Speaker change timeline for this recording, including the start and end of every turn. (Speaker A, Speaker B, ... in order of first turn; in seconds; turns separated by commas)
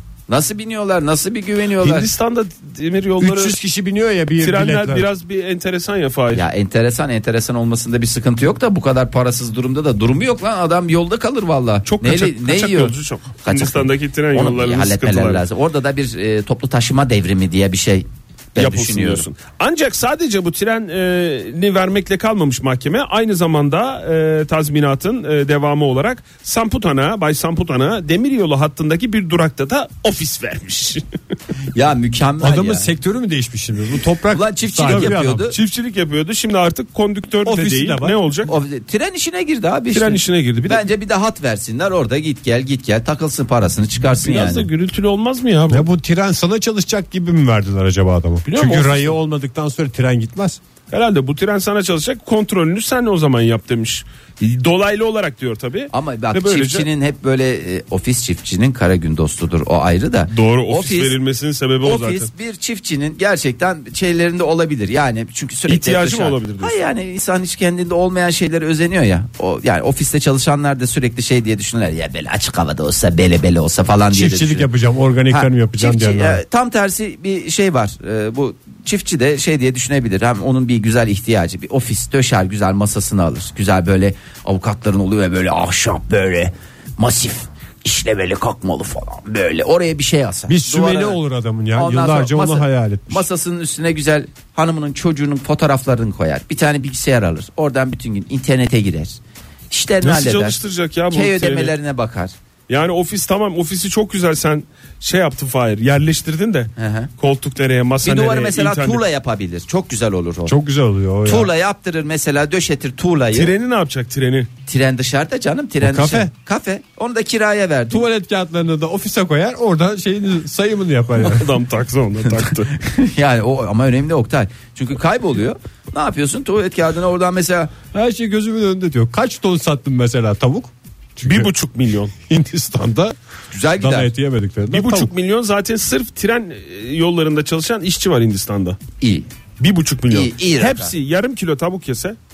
Speaker A: 0.3-2.1, Speaker B: 1.8-3.5, Speaker C: 3.2-5.1, Speaker B: 4.4-6.4, Speaker A: 6.3-12.9, Speaker B: 11.8-15.4, Speaker A: 13.4-19.3, Speaker B: 18.6-31.0, Speaker A: 31.7-32.9, Speaker C: 32.4-35.5, Speaker A: 34.3-35.5, Speaker B: 34.8-38.5, Speaker C: 37.4-38.3, Speaker A: 38.5-44.7, Speaker B: 39.9-40.8, Speaker B: 44.2-45.9, Speaker C: 45.7-50.6, Speaker B: 48.5-49.1, Speaker B: 50.9-56.9, Speaker A: 55.9-61.1, Speaker B: 60.3-62.3, Speaker A: 61.8-74.7, Speaker B: 65.7-66.8, Speaker C: 74.1-76.4, Speaker A: 75.3-91.2, Speaker C: 90.5-93.2, Speaker A: 91.7-99.2, Speaker A: 99.7-100.6, Speaker B: 100.0-101.7, Speaker A: 101.1-102.3, Speaker B: 102.7-109.0, Speaker A: 106.8-107.1, Speaker A: 108.0-110.5, Speaker C: 110.5-111.5, Speaker A: 111.2-113.5, Speaker B: 113.3-114.5, Speaker A: 114.7-118.0, Speaker C: 115.8-116.3, Speaker C: 117.9-121.5, Speaker B: 121.2-122.7, Speaker A: 122.8-127.8, Speaker C: 127.9-131.5, Speaker B: 131.2-132.1, Speaker C: 132.3-133.2, Speaker A: 133.5-134.1, Speaker C: 133.8-135.1, Speaker B: 134.7-138.8, Speaker A: 139.0-139.3, Speaker B: 139.6-142.2, Speaker A: 140.1-140.9